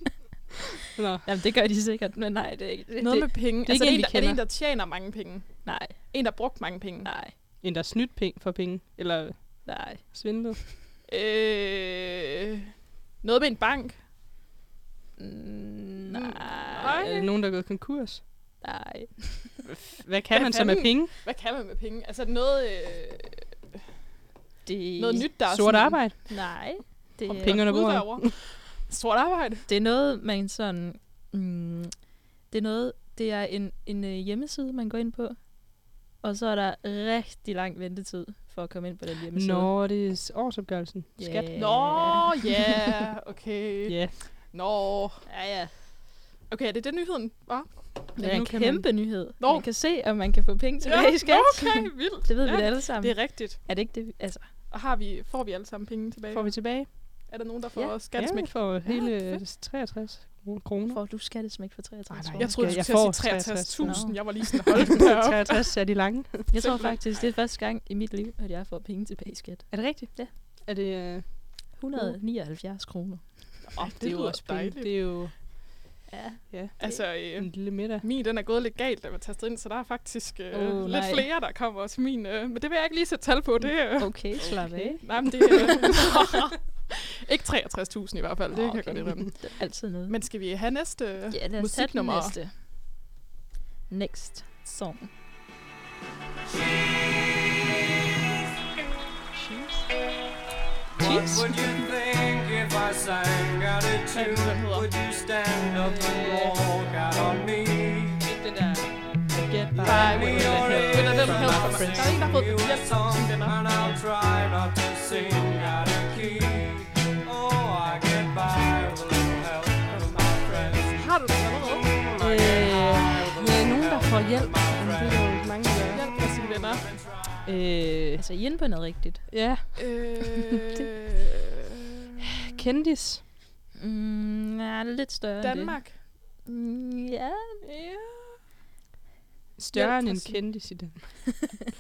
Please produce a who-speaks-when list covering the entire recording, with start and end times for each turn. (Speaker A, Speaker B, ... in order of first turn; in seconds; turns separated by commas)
Speaker A: 0.9-1.3, Speaker B: 1.2-3.2, Speaker C: 3.0-7.2, Speaker A: 3.0-4.4, Speaker B: 5.7-6.4, Speaker B: 7.0-7.3, Speaker A: 7.6-10.6, Speaker B: 9.7-10.5, Speaker C: 11.1-12.3, Speaker C: 13.2-14.0, Speaker B: 15.2-17.3, Speaker C: 16.1-17.3, Speaker A: 17.1-18.2, Speaker B: 18.6-19.6, Speaker A: 19.7-21.1, Speaker C: 20.3-23.4, Speaker B: 24.6-27.7, Speaker C: 25.0-26.1, Speaker A: 25.5-26.2, Speaker C: 27.3-29.7, Speaker A: 27.4-28.3, Speaker B: 29.7-39.7, Speaker A: 39.3-41.8, Speaker B: 41.2-42.4, Speaker C: 41.5-45.3, Speaker A: 43.9-44.2, Speaker B: 45.3-45.7, Speaker C: 46.5-48.1, Speaker B: 48.2-54.5, Speaker A: 48.2-49.2, Speaker C: 49.4-49.7, Speaker C: 50.8-53.7, Speaker C: 54.7-59.4, Speaker A: 56.3-56.9, Speaker A: 58.1-61.0, Speaker B: 60.9-63.2, Speaker A: 62.1-66.5, Speaker C: 62.4-65.8, Speaker B: 63.8-64.8, Speaker B: 66.5-70.3, Speaker C: 66.5-67.3, Speaker A: 69.7-72.2, Speaker B: 71.8-73.8, Speaker C: 73.7-75.2, Speaker A: 73.8-75.7, Speaker B: 76.1-77.1, Speaker A: 76.5-78.0, Speaker C: 76.8-92.4, Speaker B: 80.6-81.3, Speaker B: 83.8-86.0, Speaker A: 84.4-85.9, Speaker B: 88.5-90.2, Speaker B: 91.3-92.5, Speaker B: 93.9-95.1, Speaker D: 101.0-108.2, Speaker B: 101.1-101.4, Speaker A: 101.1-101.4, Speaker C: 104.1-104.9, Speaker A: 105.8-106.6, Speaker A: 108.2-112.2, Speaker D: 109.8-121.0, Speaker C: 109.8-113.6, Speaker C: 119.9-122.0, Speaker D: 121.9-127.1, Speaker A: 122.2-126.1, Speaker C: 125.9-126.9, Speaker A: 127.5-128.2, Speaker B: 128.2-129.5, Speaker A: 129.3-130.1, Speaker C: 129.8-131.4, Speaker A: 132.4-133.2, Speaker B: 133.8-137.6, Speaker C: 135.4-136.0, Speaker C: 137.6-138.4, Speaker A: 139.6-141.6, Speaker C: 139.7-140.7